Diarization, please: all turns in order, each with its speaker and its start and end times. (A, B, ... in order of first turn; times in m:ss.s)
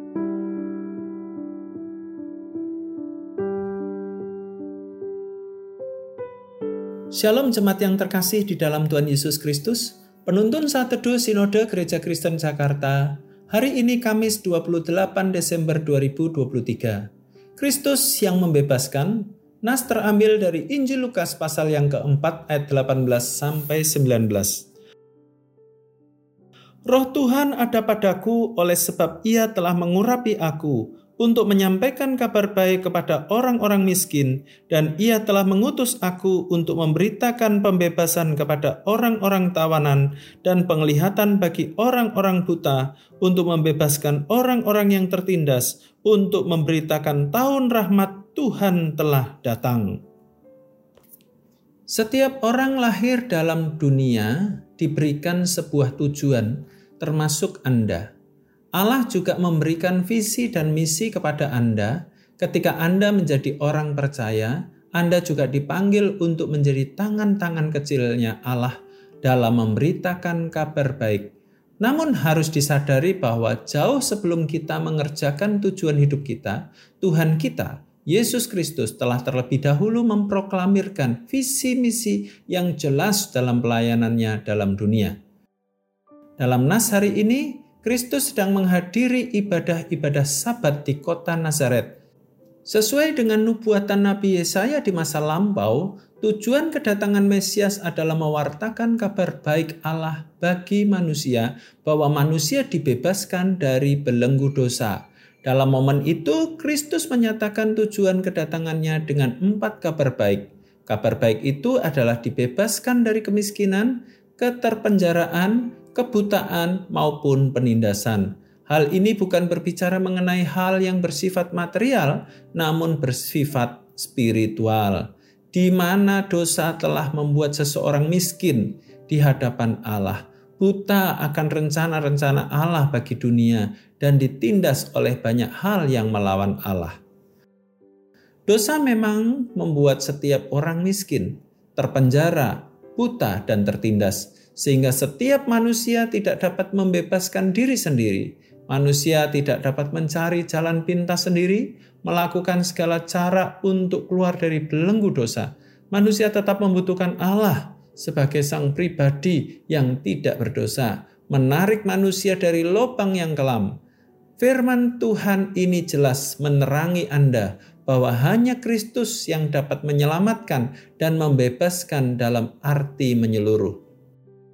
0:07.1-0:24.7 A
0:26.9-0:50.0 A
0:51.9-0:58.1 A
0:58.8-1:25.2 A
1:26.4-1:32.0 A
1:32.6-2:17.0 A
2:18.5-2:43.7 A
2:44.4-2:53.8 A